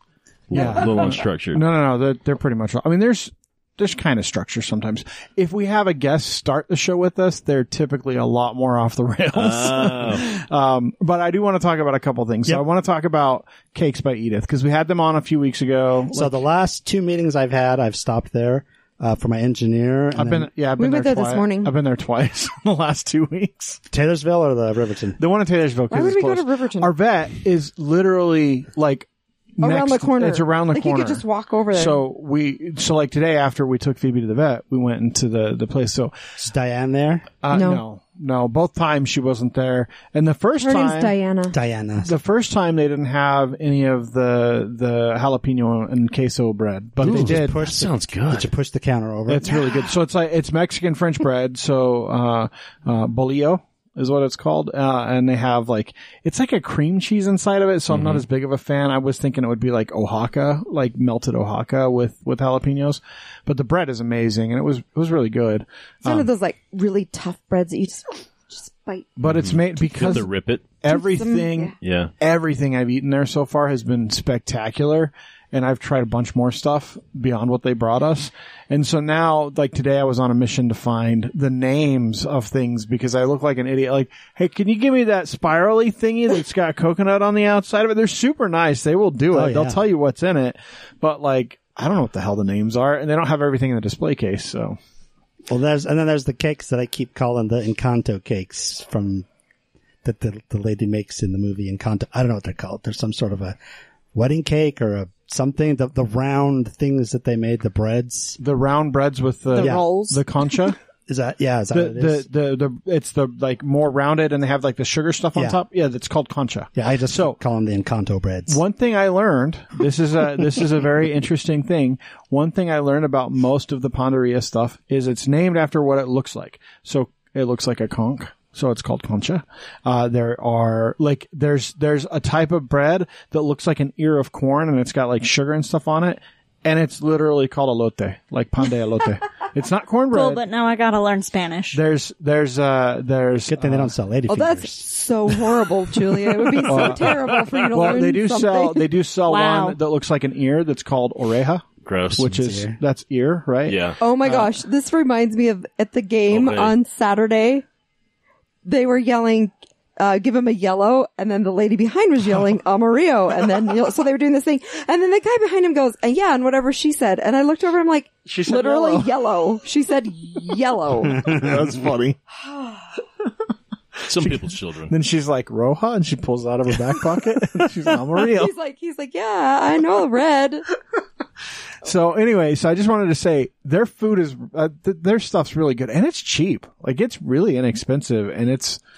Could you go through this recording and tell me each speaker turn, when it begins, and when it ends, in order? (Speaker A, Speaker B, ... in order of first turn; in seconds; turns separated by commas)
Speaker A: 0.5-1.6, Speaker B: 0.5-16.4, Speaker A: 9.3-10.3, Speaker C: 16.1-20.5, Speaker B: 20.1-23.8, Speaker D: 20.8-21.7, Speaker C: 23.9-25.2, Speaker B: 25.2-36.1, Speaker D: 25.9-26.9, Speaker D: 29.6-32.0, Speaker C: 36.4-37.3, Speaker B: 37.4-41.1, Speaker D: 37.5-37.8, Speaker D: 40.6-41.6, Speaker C: 41.5-42.1, Speaker B: 42.0-47.6, Speaker C: 47.0-49.5, Speaker A: 47.0-48.5, Speaker B: 49.3-66.3, Speaker D: 49.5-49.8, Speaker A: 57.9-58.2, Speaker D: 66.0-69.2, Speaker B: 69.2-70.3, Speaker A: 69.2-70.6, Speaker D: 69.8-70.3, Speaker B: 70.8-94.8, Speaker D: 70.9-71.8, Speaker A: 71.8-72.1, Speaker C: 89.3-89.8, Speaker C: 95.5-99.2, Speaker C: 100.0-103.5, Speaker C: 104.1-108.4, Speaker B: 108.4-110.8, Speaker E: 109.5-110.2, Speaker C: 109.5-109.8, Speaker C: 111.1-112.2, Speaker B: 111.7-117.4, Speaker C: 116.7-118.6, Speaker B: 118.5-140.4, Speaker E: 140.1-141.8, Speaker B: 141.7-143.9, Speaker C: 143.5-144.9, Speaker D: 144.3-148.9, Speaker B: 146.6-154.5, Speaker A: 146.7-147.9, Speaker E: 149.2-149.8, Speaker A: 151.8-152.3, Speaker C: 152.2-152.8, Speaker A: 153.7-154.0, Speaker D: 154.0-157.6, Speaker A: 156.3-156.7, Speaker D: 158.6-171.3, Speaker B: 168.3-169.1, Speaker B: 171.1-172.2, Speaker C: 171.2-171.7, Speaker D: 172.3-172.9, Speaker A: 174.1-174.9, Speaker B: 174.1-178.5, Speaker D: 178.2-180.6, Speaker B: 181.8-188.8